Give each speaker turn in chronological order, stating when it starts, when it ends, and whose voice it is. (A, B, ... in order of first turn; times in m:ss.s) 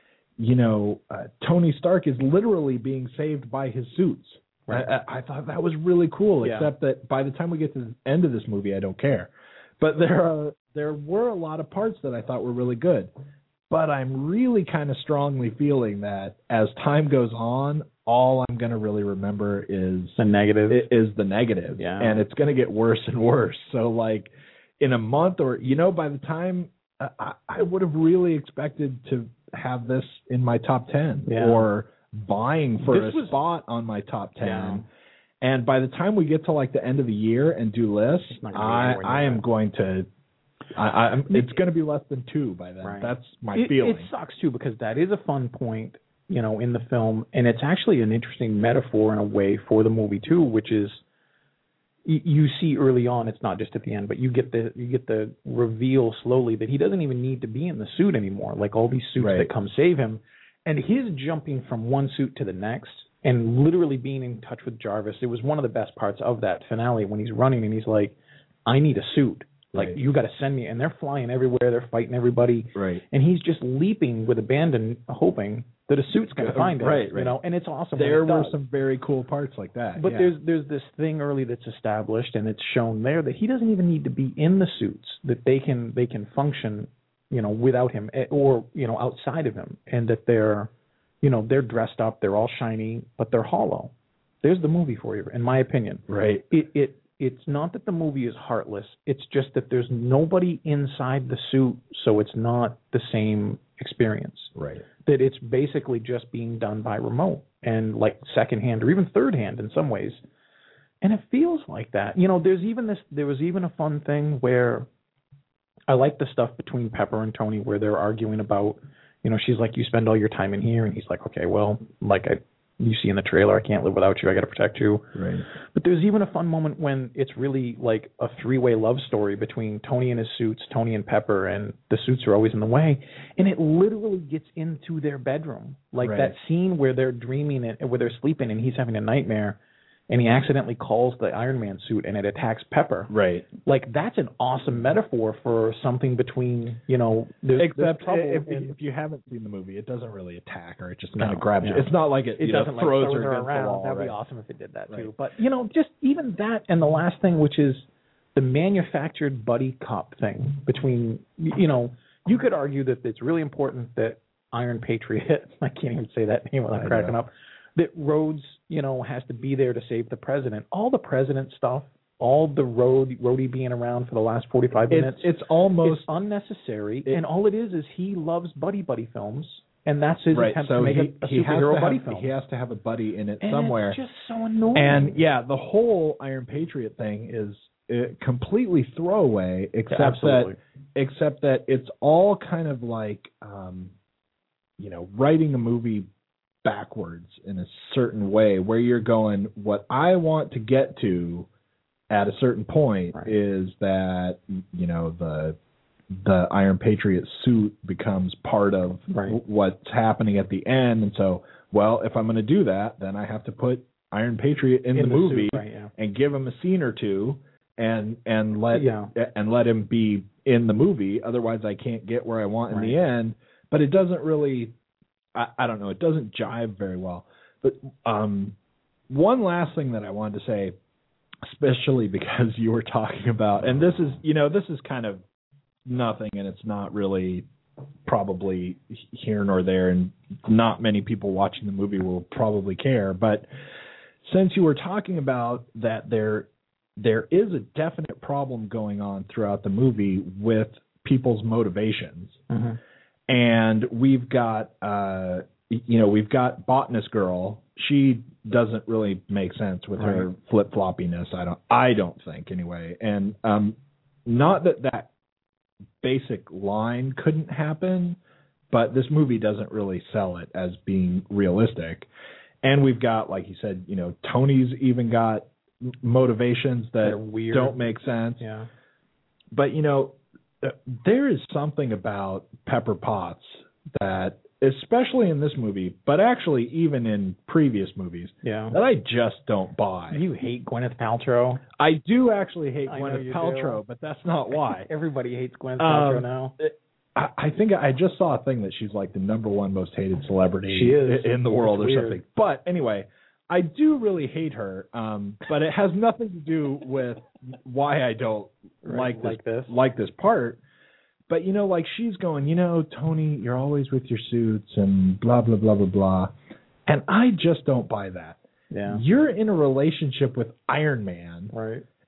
0:00.4-0:13.1 A
0:06.4-0:06.7 B
0:13.7-0:20.2 A
0:20.2-0:20.9 B
0:20.7-0:34.8 A
0:21.8-0:22.2 B
0:31.2-0:31.6 B
0:32.8-0:33.3 B
0:34.4-0:34.8 B
0:35.4-0:40.1 A
0:38.3-0:39.4 B
0:40.7-0:44.1 A
0:41.3-0:41.6 B
0:42.8-0:51.0 B
0:52.0-1:18.6 B
0:59.2-0:59.5 A
1:12.7-1:13.0 A
1:16.4-1:17.4 A
1:17.9-1:20.3 A
1:20.0-1:30.7 B
1:31.2-1:33.9 B
1:34.4-1:50.2 B
1:36.1-1:36.4 A
1:44.5-1:44.8 A
1:51.0-1:54.9 B
1:55.9-2:19.6 B
2:05.1-2:05.4 A
2:16.0-2:16.3 A
2:20.1-2:23.1 B
2:23.1-2:23.4 A
2:23.6-2:28.7 B
2:27.6-2:34.2 A
2:31.2-2:55.3 B
2:46.7-2:47.1 A
2:54.9-2:56.1 A
2:55.8-3:02.3 B
3:00.3-3:04.0 A
3:03.4-3:05.2 B
3:04.7-3:13.9 A
3:09.9-3:10.6 B
3:14.8-3:16.1 A
3:16.6-3:21.5 A
3:22.1-3:25.6 A
3:26.1-3:44.7 A
3:29.1-3:29.4 B
3:34.9-3:35.9 B
3:38.7-3:39.1 B
3:42.7-3:43.0 B
3:45.3-3:48.6 A
3:49.1-3:50.7 A
3:51.4-3:55.2 A
3:55.8-3:57.4 A
3:58.0-4:03.5 A
4:04.2-4:12.4 A
4:12.5-4:12.8 B
4:13.3-4:25.1 A
4:20.0-4:20.2 B
4:26.0-4:28.2 A
4:28.7-4:32.1 A
4:32.6-4:38.4 A
4:37.0-4:37.8 B
4:38.4-4:38.7 B
4:39.5-4:50.2 A
4:48.4-4:48.8 B
4:50.1-4:51.6 B
4:51.8-4:54.9 A
4:52.8-4:53.8 B
4:54.8-4:56.6 B
4:55.8-5:10.6 A
5:00.7-5:02.2 B
5:08.8-5:09.7 B
5:11.3-5:16.3 A
5:16.8-5:21.5 A
5:18.7-5:19.0 B
5:21.5-5:21.8 B